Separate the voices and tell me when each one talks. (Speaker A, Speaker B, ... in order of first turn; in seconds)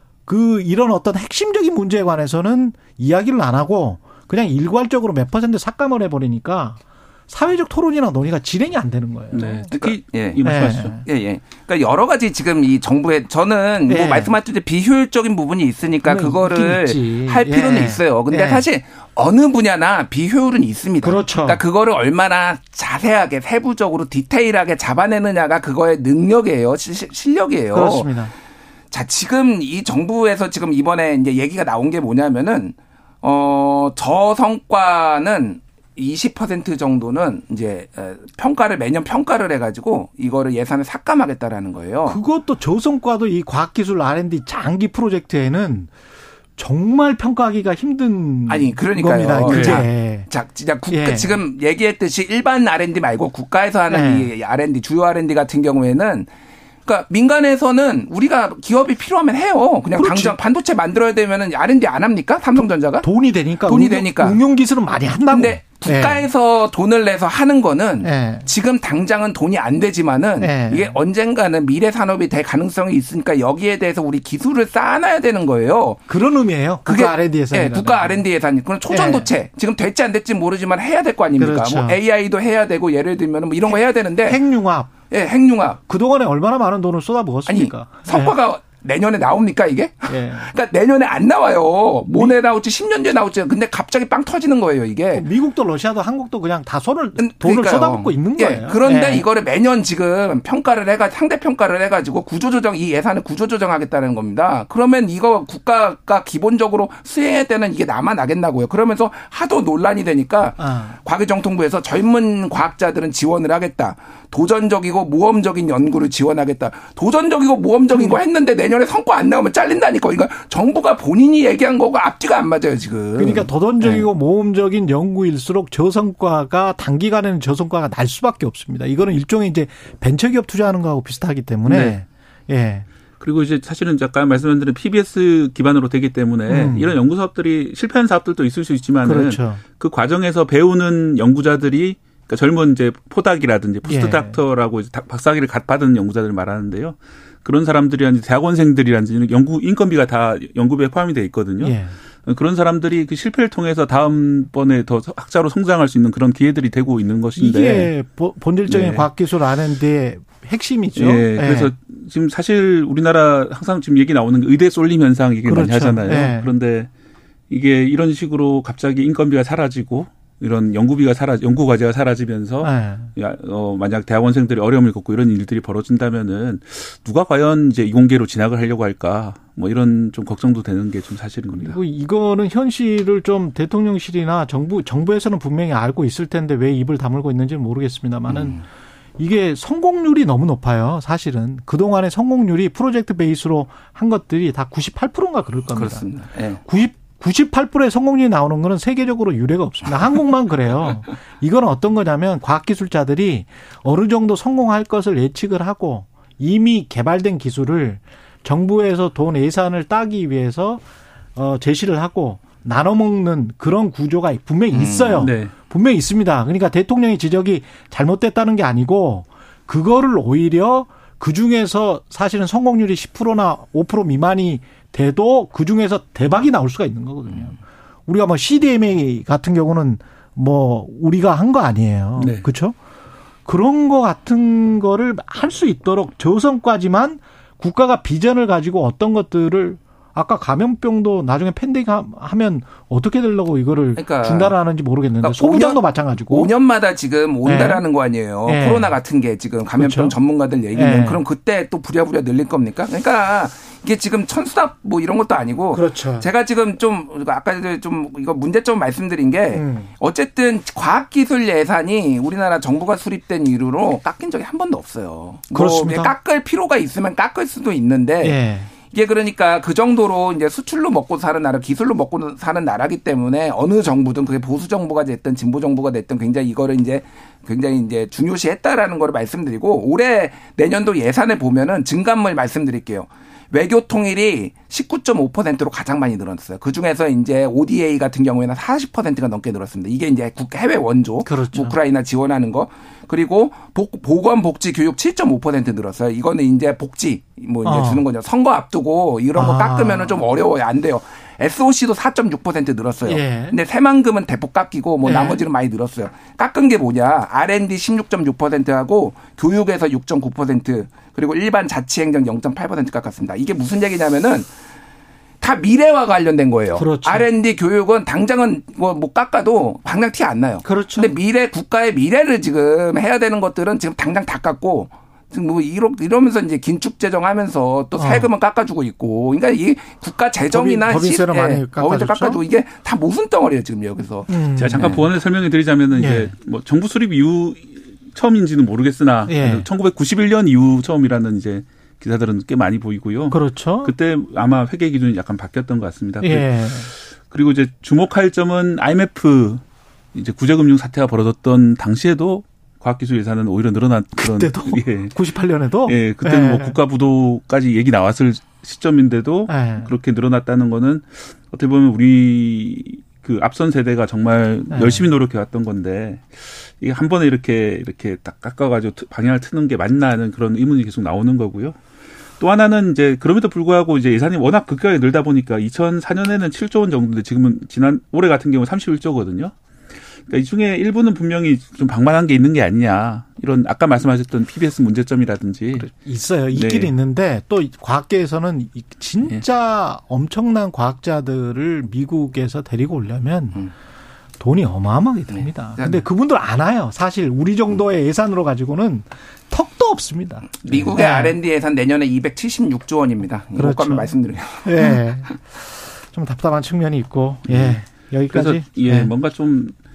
Speaker A: 0.2-9.8, 10.4-11.0, 13.9-14.3, 16.0-18.6, 21.0-21.6, 27.7-28.3, 42.0-45.9, 46.6-50.3, 50.9-51.4, 53.9-54.3, 59.9-60.4, 62.5-66.2, 68.0-68.5, 70.4-71.0, 76.1-78.2, 78.9-79.3, 81.3-82.0, 83.7-84.9, 85.9-88.3, 90.0-90.5, 95.1-99.2, 110.6-111.0, 117.9-118.2, 123.2-132.8, 136.5-137.0, 139.0-139.6, 143.8-144.4, 151.6-151.9, 157.3-161.7, 165.4-166.5, 172.6-173.1, 181.5-188.7, 189.2-232.8, 233.4-246.5, 247.4-247.8, 248.4-248.9, 249.8-250.1, 250.7-251.2, 255.7-256.3, 259.5-259.9, 265.5-266.1, 268.2-268.7, 291.2-291.8, 297.6-298.0, 299.3-300.2, 303.0-303.6, 305.0-305.4, 316.7-317.3, 320.6-321.1, 327.9-328.3, 330.5-332.4, 334.3-334.9, 335.9-336.3, 339.2-339.7, 343.3-343.9, 346.2-346.9, 354.1-356.8, 359.5-359.9, 364.7-365.1, 385.7-393.7, 394.4-401.4, 403.5-409.1
Speaker B: 9.3-11.0, 131.7-132.0, 133.2-157.9, 158.7-159.1, 160.9-166.9, 167.5-181.8, 215.2-215.5, 232.2-232.5, 334.6-349.6, 350.1-355.1, 355.8-371.8, 372.4-379.5, 380.3-385.9, 386.5-386.9, 407.5-409.7
Speaker C: 9.7-28.1, 28.9-42.2, 48.5-56.3, 56.9-63.1, 63.6-64.4, 65.3-76.1, 76.8-84.4, 85.1-85.8, 87.5-95.2, 97.2-124.1, 188.3-188.6, 195.7-196.6, 214.7-215.2, 243.9-244.5, 245.2-314.5, 315.4-335.1, 395.3-396.0, 400.6-405.3